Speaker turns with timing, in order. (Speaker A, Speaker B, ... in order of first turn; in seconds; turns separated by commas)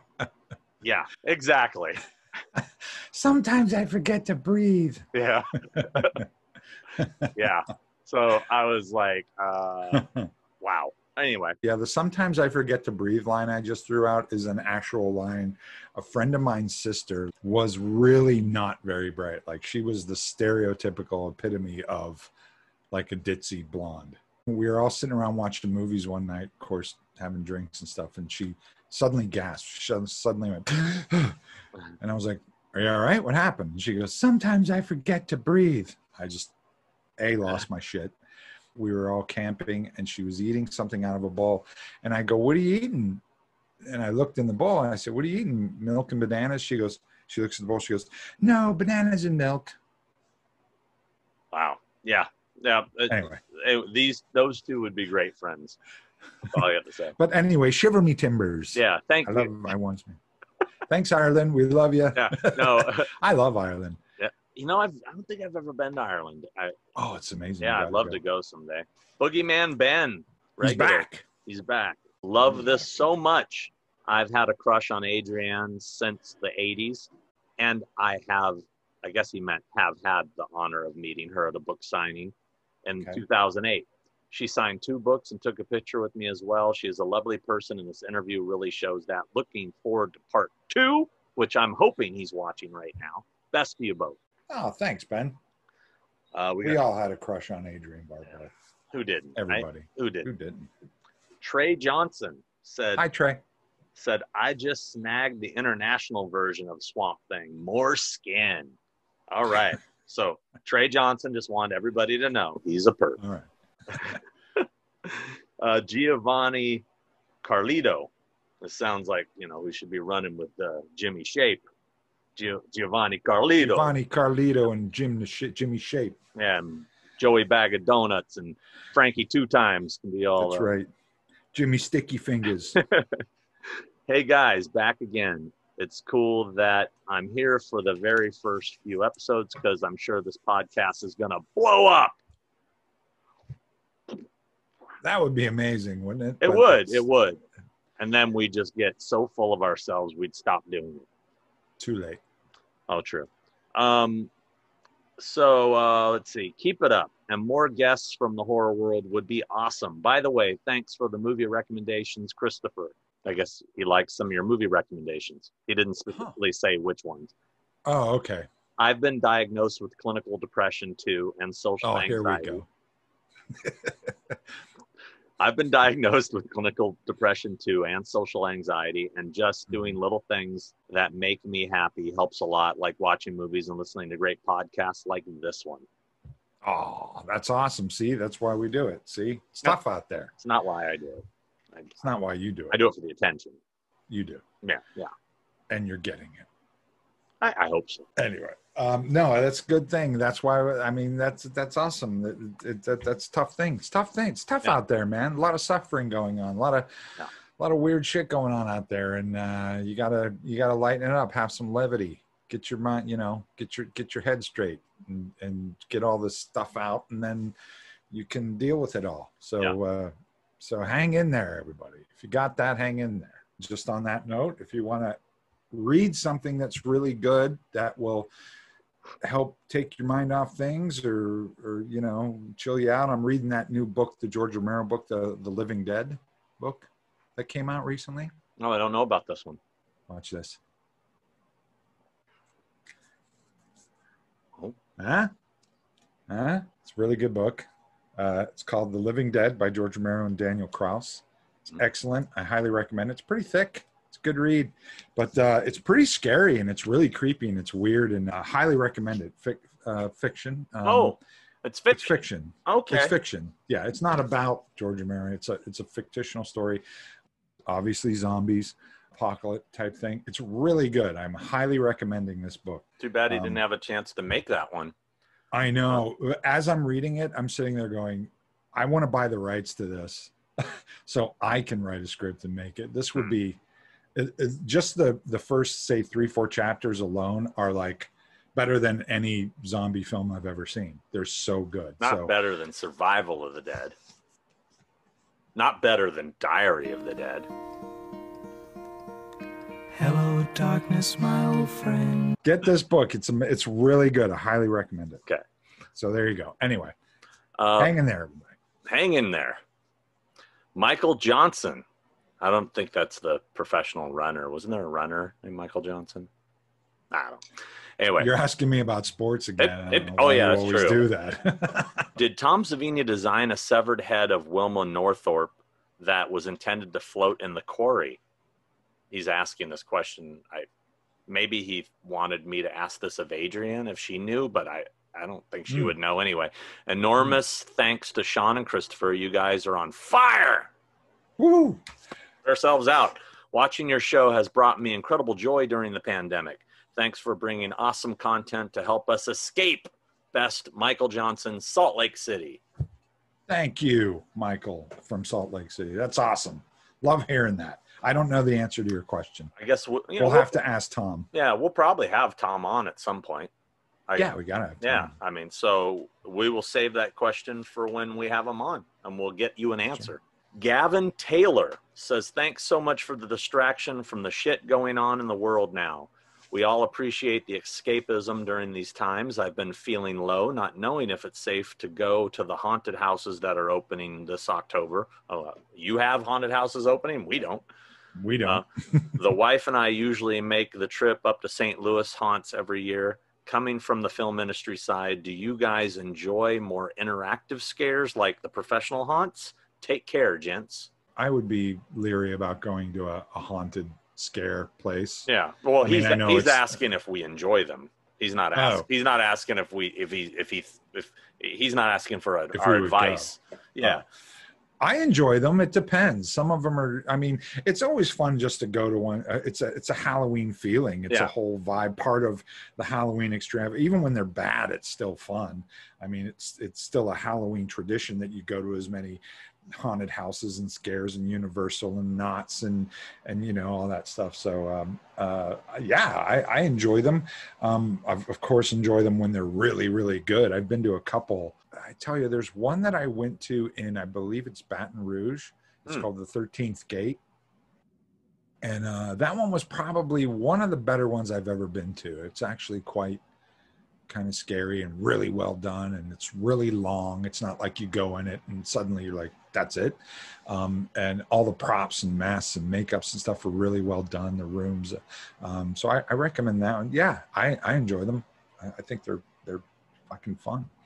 Speaker A: 0.8-2.0, Speaker B: 2.6-5.1, Speaker A: 5.1-6.2, Speaker B: 5.8-6.3, Speaker B: 7.0-7.5, Speaker A: 7.3-10.1, Speaker B: 9.9-10.3, Speaker A: 10.6-11.6, Speaker B: 11.6-22.3, Speaker B: 22.9-31.4, Speaker B: 32.0-36.5, Speaker B: 37.2-38.1, Speaker B: 38.8-43.2, Speaker B: 43.8-49.8, Speaker A: 51.5-55.8, Speaker B: 53.1-53.4, Speaker A: 56.4-57.1, Speaker B: 57.2-60.2, Speaker A: 58.8-59.6, Speaker B: 60.9-64.0, Speaker A: 62.1-63.1, Speaker A: 64.2-66.8, Speaker B: 67.0-68.2, Speaker A: 67.6-82.3, Speaker B: 70.6-71.2, Speaker A: 82.8-94.2, Speaker B: 94.5-95.4, Speaker A: 96.3-96.8, Speaker B: 96.6-98.5, Speaker A: 98.9-100.3, Speaker B: 99.4-100.7, Speaker A: 101.4-103.0, Speaker B: 103.0-103.4, Speaker A: 104.0-108.7, Speaker A: 109.3-113.2, Speaker B: 113.2-114.2, Speaker A: 114.0-116.8, Speaker A: 117.4-118.1, Speaker A: 118.6-121.6, Speaker A: 122.4-123.9, Speaker B: 123.6-126.2, Speaker A: 126.4-130.7, Speaker B: 130.4-130.9, Speaker B: 131.5-132.8, Speaker A: 132.8-133.1, Speaker A: 134.1-142.2, Speaker B: 145.0-147.1, Speaker A: 146.4-147.4, Speaker A: 148.0-151.1, Speaker B: 151.8-152.2, Speaker A: 152.9-154.3, Speaker A: 155.2-167.3, Speaker B: 167.9-168.5, Speaker A: 168.8-172.6, Speaker B: 171.8-172.7, Speaker B: 173.6-174.3, Speaker A: 175.4-185.9, Speaker B: 186.6-190.3, Speaker A: 190.4-192.0, Speaker B: 192.0-192.8, Speaker A: 192.7-193.6, Speaker B: 194.1-194.4, Speaker A: 194.6-195.1, Speaker B: 195.7-196.5, Speaker A: 197.4-198.1, Speaker B: 198.2-206.9, Speaker B: 207.6-217.6, Speaker B: 218.1-225.2, Speaker B: 225.7-228.3, Speaker B: 229.2-238.3, Speaker A: 238.6-239.6, Speaker B: 240.1-240.6, Speaker B: 245.0-245.3, Speaker B: 246.3-261.2, Speaker A: 260.8-263.2, Speaker B: 261.9-266.8, Speaker B: 267.7-273.6, Speaker A: 273.0-274.9, Speaker B: 275.5-283.6, Speaker B: 284.1-292.4, Speaker A: 292.0-293.9, Speaker A: 295.6-297.5, Speaker C: 299.9-302.3, Speaker B: 302.4-305.2, Speaker B: 305.9-306.9, Speaker A: 307.6-307.9, Speaker B: 307.8-308.5, Speaker A: 308.9-309.6, Speaker A: 310.8-311.8, Speaker A: 312.4-316.3, Speaker A: 317.1-317.4, Speaker A: 318.0-318.3, Speaker B: 318.2-322.1, Speaker A: 319.6-321.1, Speaker A: 322.2-328.2, Speaker A: 329.1-330.7, Speaker A: 331.3-340.7, Speaker B: 335.7-335.9, Speaker B: 341.4-341.8, Speaker A: 342.4-352.6, Speaker B: 353.5-359.5, Speaker A: 359.6-360.5, Speaker B: 360.2-361.3, Speaker A: 361.3-363.5, Speaker A: 364.1-387.6, Speaker B: 364.2-365.1, Speaker B: 388.2-389.0, Speaker A: 388.4-400.9, Speaker B: 401.2-405.3, Speaker A: 405.3-414.0, Speaker B: 405.8-406.7, Speaker B: 408.5-408.9, Speaker B: 412.5-414.0, Speaker B: 414.8-447.2, Speaker B: 448.6-453.2, Speaker B: 454.1-470.7